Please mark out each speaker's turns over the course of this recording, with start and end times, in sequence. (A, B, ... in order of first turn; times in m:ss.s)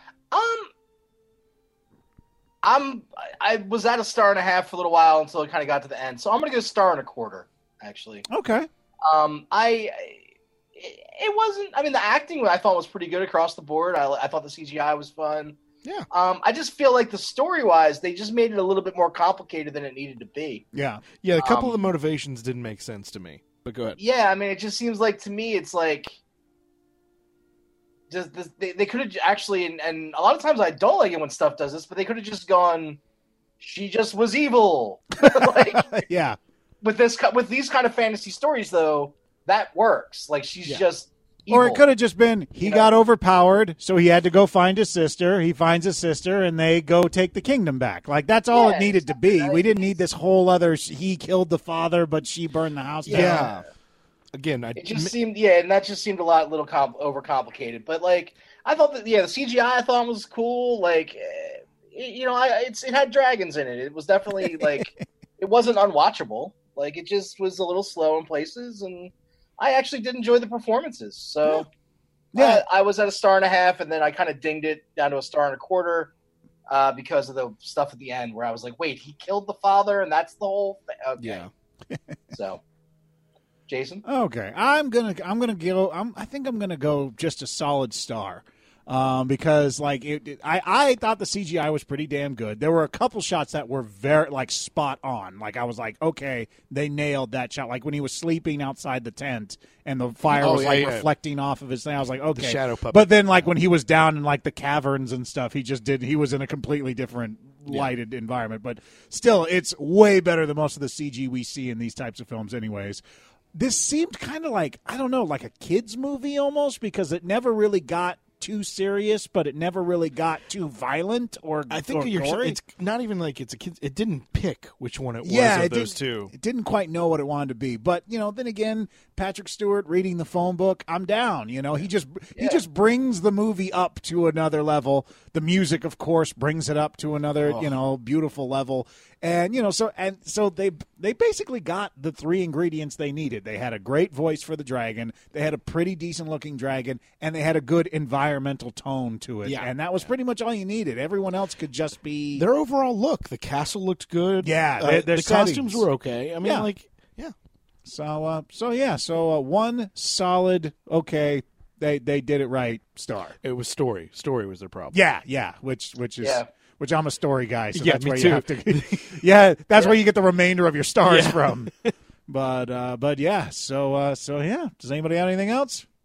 0:00.3-0:00.7 A
0:02.6-0:08.3 A
0:08.3-0:08.7 B
0:09.0-0:10.2 A
0:10.7-0:15.6 A
0:16.1-0:20.6 A
0:20.7-0:21.0 B
0:21.2-0:24.0 C
0:21.4-0:21.9 A
0:24.0-0:26.2 A
0:28.1-0:33.0 A
0:33.6-0:36.0 A
0:35.2-0:36.4 B
0:36.8-0:41.8 A
0:41.5-0:53.5 B
0:42.6-0:42.9 A
0:48.5-0:49.9 A
0:53.0-0:53.7 A
0:53.1-0:53.6 C
0:54.3-0:55.1 C
0:54.8-1:11.7 A
1:04.4-1:04.8 B
1:12.3-1:12.6 B
1:12.3-1:16.1 A
1:16.7-1:21.4 A
1:21.2-1:21.5 C
1:21.9-1:22.1 B
1:22.3-1:22.6 A
1:23.7-1:24.0 A
1:24.0-1:53.0 B
1:40.3-1:41.1 C
1:42.4-1:43.3 C
1:47.7-1:47.9 C
1:53.5-2:02.6 B
2:01.7-2:06.3 C
2:05.2-2:32.4 B
2:12.4-2:12.6 A
2:17.4-2:17.7 C
2:29.4-2:29.7 C
2:32.4-2:37.3 C
2:34.4-2:35.9 B
2:36.4-2:36.7 B
2:37.8-2:43.4 B
2:43.4-2:45.0 C
2:44.9-2:51.7 B
2:46.2-2:46.5 A
2:47.7-2:49.2 C
2:51.0-2:51.9 C
2:52.3-2:55.8 B